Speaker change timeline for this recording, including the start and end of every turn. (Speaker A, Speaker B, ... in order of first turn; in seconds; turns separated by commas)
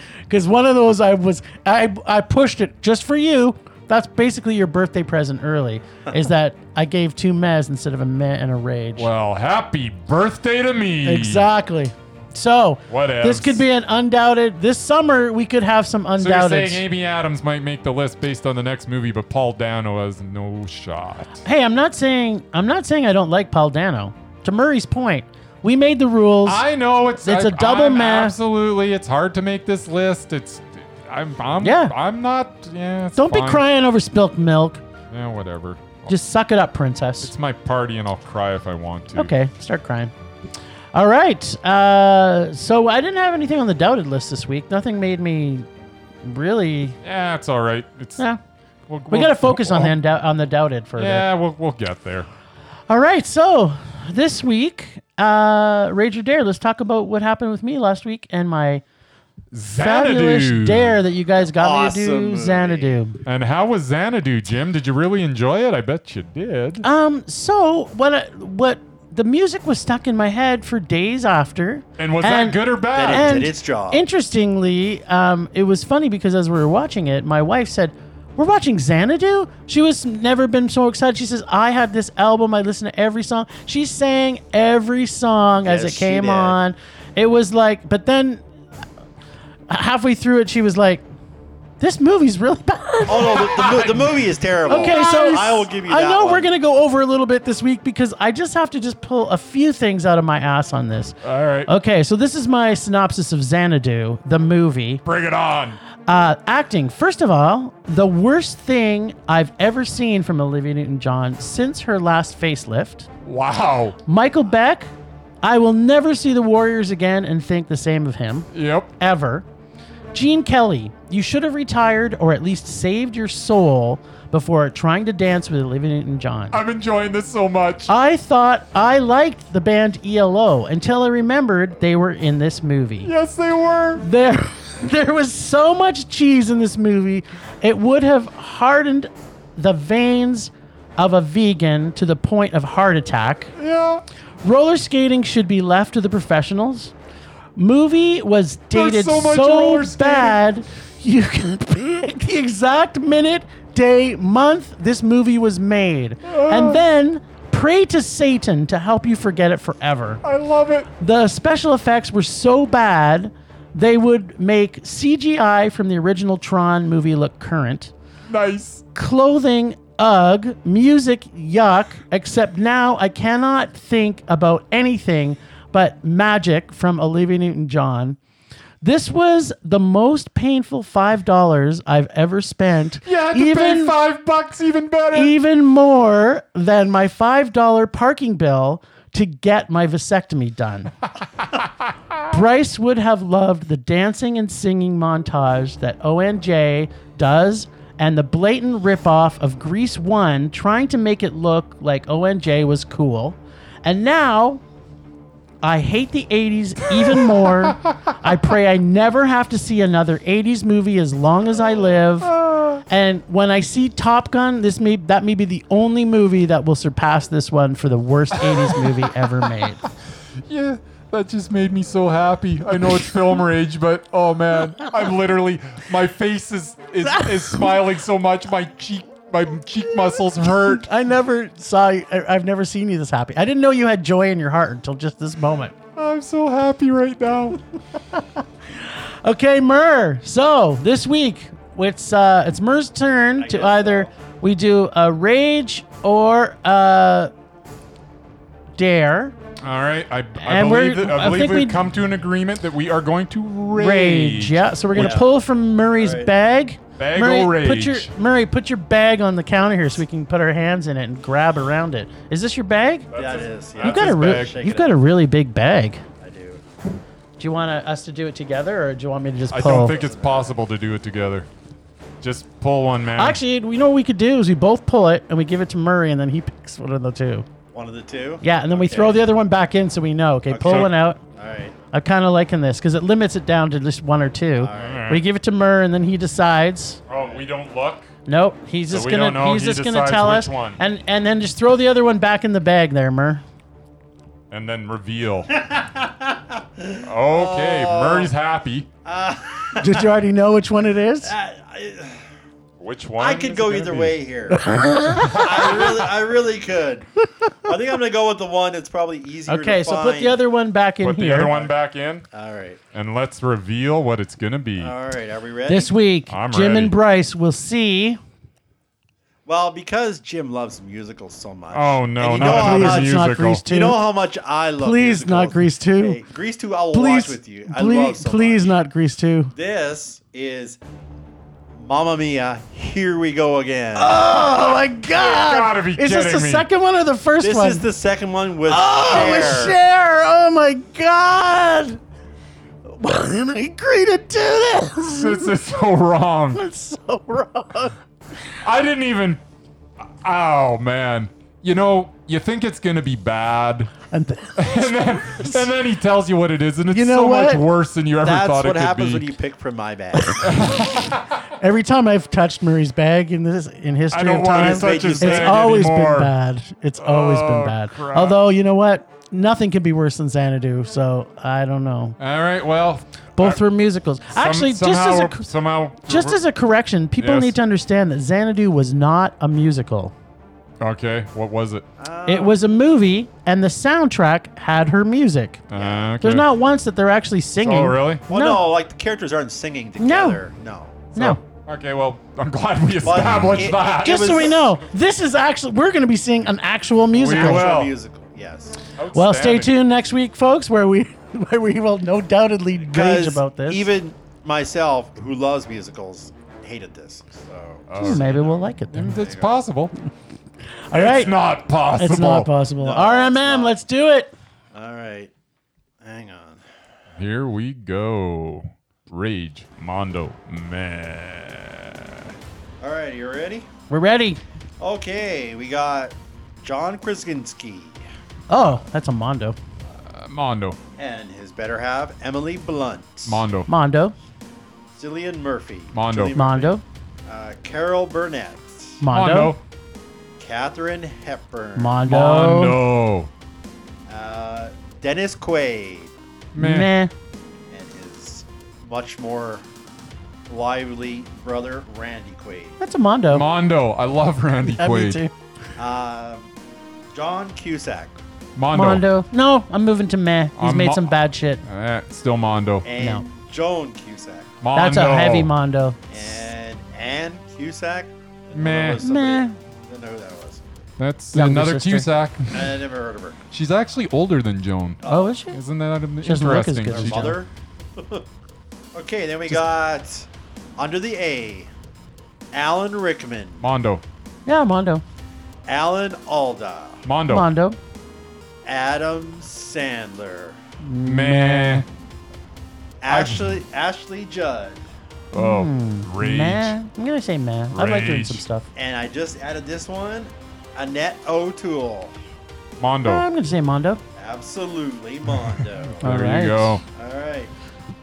Speaker A: 0.3-9.1, Speaker B: 8.9-11.5, Speaker A: 11.0-16.8, Speaker B: 12.9-13.6, Speaker B: 16.2-21.4, Speaker A: 21.4-26.6, Speaker B: 26.4-33.6, Speaker A: 27.2-28.3, Speaker A: 31.6-31.9, Speaker A: 33.1-34.8, Speaker B: 35.1-36.1, Speaker A: 36.1-37.3, Speaker B: 37.2-39.3, Speaker A: 39.1-40.1, Speaker A: 40.9-45.7, Speaker A: 46.2-47.0, Speaker B: 47.0-48.2, Speaker B: 48.9-49.9, Speaker A: 49.1-51.3, Speaker B: 51.0-52.3, Speaker A: 52.9-58.8, Speaker B: 59.5-61.0, Speaker A: 59.8-63.2, Speaker C: 61.4-63.0, Speaker B: 63.2-66.8, Speaker A: 66.8-88.4, Speaker B: 72.0-73.4, Speaker C: 72.9-74.0, Speaker C: 85.6-86.6, Speaker A: 89.7-91.0, Speaker A: 91.8-93.5, Speaker C: 93.1-96.5, Speaker B: 93.1-95.5, Speaker A: 94.7-105.0, Speaker B: 101.2-101.7, Speaker B: 105.0-105.8, Speaker A: 106.1-113.1, Speaker B: 113.2-114.0, Speaker A: 114.1-114.9, Speaker A: 115.4-119.5, Speaker B: 118.5-118.9, Speaker A: 120.1-126.6, Speaker B: 126.5-127.9, Speaker A: 127.9-133.1, Speaker B: 133.0-134.0, Speaker A: 134.0-143.5, Speaker B: 143.6-144.0, Speaker A: 144.4-146.9, Speaker A: 147.6-160.2, Speaker B: 148.7-150.4, Speaker B: 156.2-156.8, Speaker B: 160.2-160.9, Speaker A: 161.0-167.9, Speaker B: 168.3-168.8, Speaker A: 168.9-178.2, Speaker A: 178.8-183.9, Speaker B: 183.0-185.3, Speaker A: 185.1-190.9, Speaker A: 192.3-204.6, Speaker A: 205.6-212.3, Speaker B: 207.0-207.3, Speaker B: 212.2-212.8, Speaker A: 212.9-219.8, Speaker B: 218.4-219.5, Speaker B: 220.4-230.8, Speaker A: 227.1-227.6, Speaker A: 230.5-235.7, Speaker B: 235.9-237.6, Speaker A: 238.8-247.3, Speaker C: 243.4-244.1, Speaker A: 248.8-249.3, Speaker B: 249.6-255.2, Speaker A: 250.4-251.8, Speaker A: 253.7-263.1, Speaker C: 254.9-255.3, Speaker C: 255.9-256.3, Speaker B: 257.0-258.1, Speaker B: 263.1-264.6, Speaker C: 263.1-264.9, Speaker A: 263.8-266.0, Speaker C: 266.2-266.6, Speaker A: 267.4-269.9, Speaker B: 269.5-271.5, Speaker C: 269.5-270.6, Speaker B: 272.2-273.4, Speaker A: 273.2-277.5, Speaker C: 277.7-279.2, Speaker A: 278.4-281.2, Speaker C: 280.5-281.8, Speaker B: 280.6-280.9, Speaker A: 281.9-287.0, Speaker C: 284.6-285.1, Speaker B: 284.7-285.2, Speaker B: 287.1-288.1, Speaker C: 287.2-287.4, Speaker A: 288.2-293.4, Speaker B: 288.9-290.8, Speaker B: 294.5-295.5, Speaker C: 295.5-298.3, Speaker B: 297.0-298.9, Speaker C: 299.0-300.1, Speaker A: 299.8-301.3, Speaker C: 301.2-302.3, Speaker B: 302.8-304.2, Speaker C: 303.2-304.7, Speaker A: 304.5-305.5, Speaker B: 305.1-305.9, Speaker C: 305.2-307.1, Speaker C: 307.6-310.4, Speaker A: 309.5-311.5, Speaker B: 311.0-312.2, Speaker C: 311.4-311.7, Speaker C: 312.3-312.8, Speaker B: 312.9-314.9, Speaker C: 314.8-315.9, Speaker A: 315.7-318.2, Speaker B: 316.3-316.9, Speaker C: 319.4-328.8, Speaker B: 321.7-323.6, Speaker A: 322.3-324.0, Speaker A: 324.8-326.2, Speaker A: 326.9-329.5, Speaker C: 329.5-330.8, Speaker C: 331.7-334.4, Speaker A: 333.9-337.9, Speaker B: 335.1-336.6, Speaker C: 337.4-339.8, Speaker A: 338.7-342.0, Speaker A: 342.9-345.5, Speaker B: 345.1-346.6, Speaker A: 346.5-347.9, Speaker B: 348.6-349.4, Speaker B: 350.2-353.9, Speaker A: 354.1-355.6, Speaker B: 354.6-359.3, Speaker A: 356.9-357.6, Speaker C: 358.2-360.5, Speaker A: 360.3-360.6, Speaker B: 360.4-361.4, Speaker A: 361.6-372.2, Speaker B: 364.1-366.3, Speaker C: 364.5-365.9, Speaker B: 367.0-368.4, Speaker B: 372.2-373.6, Speaker A: 373.4-375.4, Speaker B: 374.3-376.4, Speaker A: 376.1-380.1, Speaker B: 377.2-377.6, Speaker B: 380.8-381.8, Speaker C: 382.0-382.6, Speaker A: 382.2-385.6, Speaker B: 385.7-386.4, Speaker C: 385.7-386.1, Speaker A: 386.2-388.6, Speaker B: 387.6-388.2, Speaker C: 388.3-391.1, Speaker A: 390.0-390.4, Speaker A: 391.1-391.4, Speaker B: 391.1-394.6, Speaker C: 393.0-394.7, Speaker A: 394.0-397.7, Speaker B: 397.1-397.9, Speaker C: 397.2-398.8, Speaker B: 399.0-399.7, Speaker A: 399.1-403.9, Speaker C: 402.9-409.6, Speaker B: 407.9-409.9, Speaker A: 408.0-409.2, Speaker A: 410.9-411.3, Speaker B: 410.9-412.5, Speaker A: 412.0-414.3, Speaker C: 412.8-413.8, Speaker C: 414.7-415.3, Speaker C: 416.0-416.6, Speaker B: 417.2-422.3, Speaker C: 422.8-423.7, Speaker A: 423.9-424.4, Speaker C: 424.8-428.0, Speaker A: 428.5-429.6, Speaker B: 430.1-430.8, Speaker C: 430.9-433.5, Speaker B: 433.2-433.7, Speaker A: 433.7-434.1, Speaker C: 434.9-436.7, Speaker B: 435.9-436.4, Speaker A: 436.3-436.8, Speaker C: 437.2-439.0, Speaker A: 439.0-439.5, Speaker B: 439.1-439.6, Speaker C: 440.4-442.0, Speaker A: 441.8-442.8, Speaker B: 442.1-443.3, Speaker C: 444.1-446.1, Speaker B: 446.5-446.9, Speaker A: 446.6-447.1, Speaker C: 447.7-449.6, Speaker C: 450.5-452.8, Speaker A: 452.8-453.4, Speaker B: 453.3-455.2, Speaker A: 454.6-455.3, Speaker C: 455.8-456.5, Speaker C: 457.1-458.2, Speaker B: 458.6-459.0, Speaker A: 458.7-461.6, Speaker B: 460.6-462.9, Speaker C: 462.8-464.5, Speaker A: 463.0-463.2, Speaker B: 464.6-465.5, Speaker A: 464.7-466.0, Speaker C: 466.1-470.9, Speaker B: 468.6-469.0, Speaker A: 469.0-469.6, Speaker B: 471.0-472.7, Speaker A: 471.3-472.1, Speaker C: 472.5-473.4, Speaker B: 473.5-477.4, Speaker C: 475.0-475.3, Speaker A: 475.1-475.6, Speaker A: 476.2-477.4, Speaker C: 476.9-478.3, Speaker C: 478.9-481.7, Speaker C: 482.5-483.6, Speaker B: 483.6-484.0, Speaker A: 484.4-485.0, Speaker C: 485.6-487.0, Speaker B: 487.0-487.5, Speaker A: 487.3-487.8, Speaker C: 488.6-490.6, Speaker A: 490.8-491.9, Speaker B: 491.0-491.9, Speaker C: 493.0-494.9, Speaker B: 493.1-493.6, Speaker B: 495.3-496.7, Speaker A: 495.4-498.7, Speaker B: 497.7-498.4, Speaker C: 498.7-502.1, Speaker B: 502.8-503.2, Speaker A: 503.0-504.0, Speaker C: 504.1-506.0, Speaker B: 506.0-506.8, Speaker A: 506.0-506.8, Speaker C: 506.9-507.5